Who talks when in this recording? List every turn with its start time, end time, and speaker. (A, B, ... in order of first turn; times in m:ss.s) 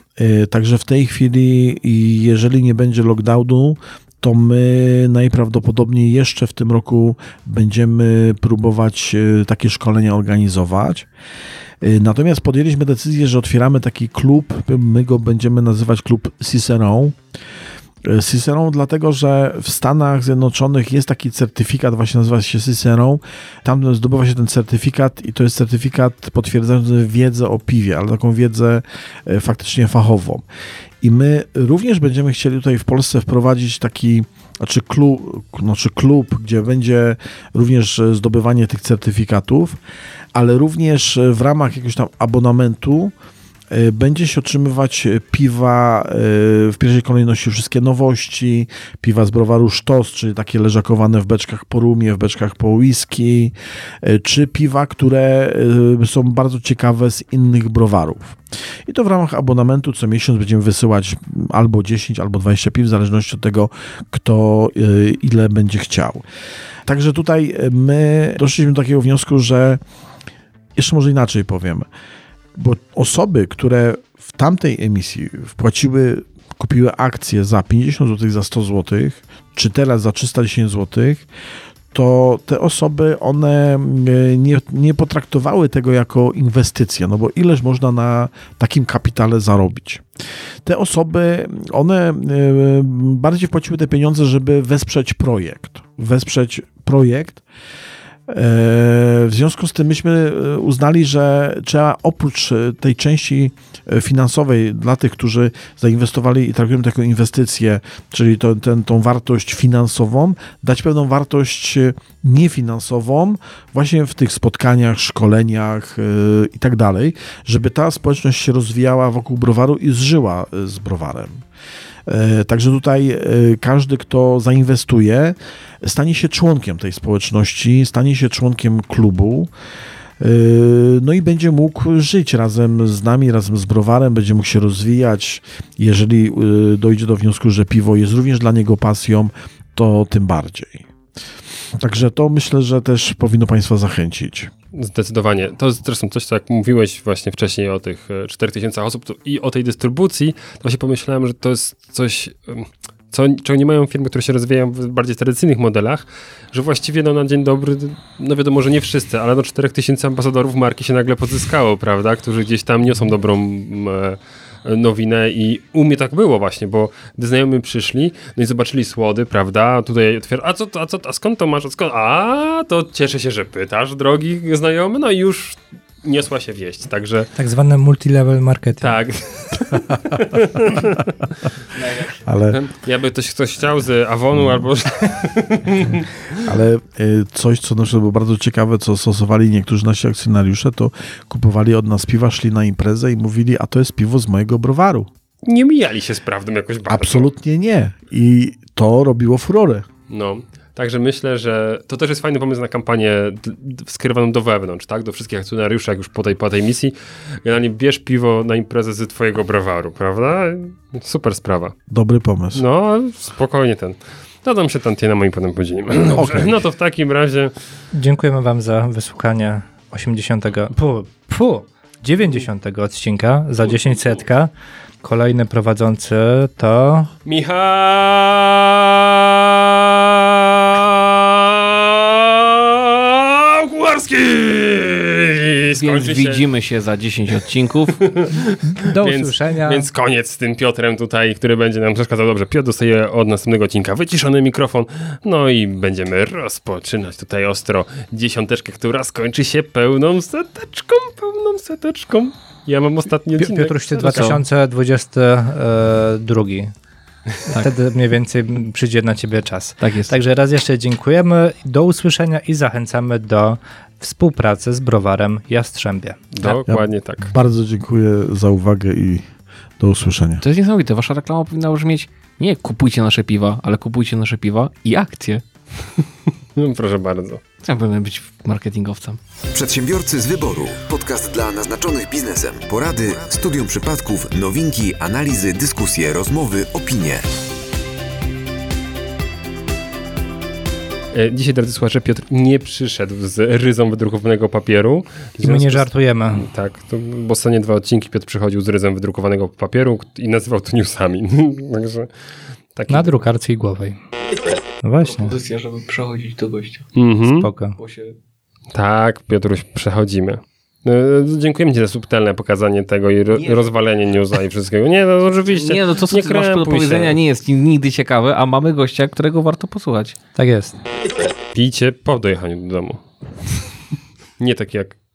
0:00.2-0:11.1 A
0:11.8-0:17.2 A
0:18.0-0:30.4 A
0:31.0-0:39.8 A
0:40.3-0:43.1 A
0:43.7-1:06.2 A
1:06.8-1:09.8 A
1:10.8-1:11.9 A
1:12.5-1:21.2 A
1:21.9-1:30.0 A
1:30.6-1:37.4 A
1:38.3-2:01.4 A
2:02.1-2:09.5 A
2:10.2-2:20.8 A
2:21.8-2:24.5 A
2:24.7-2:57.3 B
2:57.4-2:59.0 C
2:58.8-3:01.0 B
3:01.8-3:02.1 D
3:02.2-3:02.6 A
3:02.5-3:06.4 B
3:06.4-3:15.1 A
3:15.4-3:17.3 B
3:16.9-3:19.8 A
3:20.1-3:31.7 B
3:31.9-3:32.6 A
3:32.5-3:37.5 B
3:36.1-3:36.6 A
3:37.9-3:44.5 C
3:45.0-3:47.1 C
3:47.2-3:56.5 B
3:55.8-3:58.0 D
3:58.0-4:14.3 B
3:58.7-3:59.8 C
4:13.4-4:16.7 C
4:14.0-4:14.4 D
4:17.5-4:26.2 C
4:19.8-4:20.1 D
4:26.3-4:27.3 B
4:26.6-4:30.4 A
4:30.4-4:35.4 D
4:36.6-4:37.4 B
4:37.6-4:39.2 D
4:39.5-4:47.3 E
4:51.1-5:02.1 B
4:55.4-4:56.5 C
5:02.7-5:03.2 B
5:02.9-5:04.0 C
5:04.8-5:05.3 C
5:05.0-5:06.9 D
5:06.9-5:07.5 B
5:07.3-5:07.8 C
5:07.8-5:08.1 D
5:08.7-5:17.2 B
5:13.3-5:13.6 D
5:15.5-5:20.2 D
5:20.3-5:20.8 C
5:21.5-5:23.0 B
5:24.4-5:25.0 B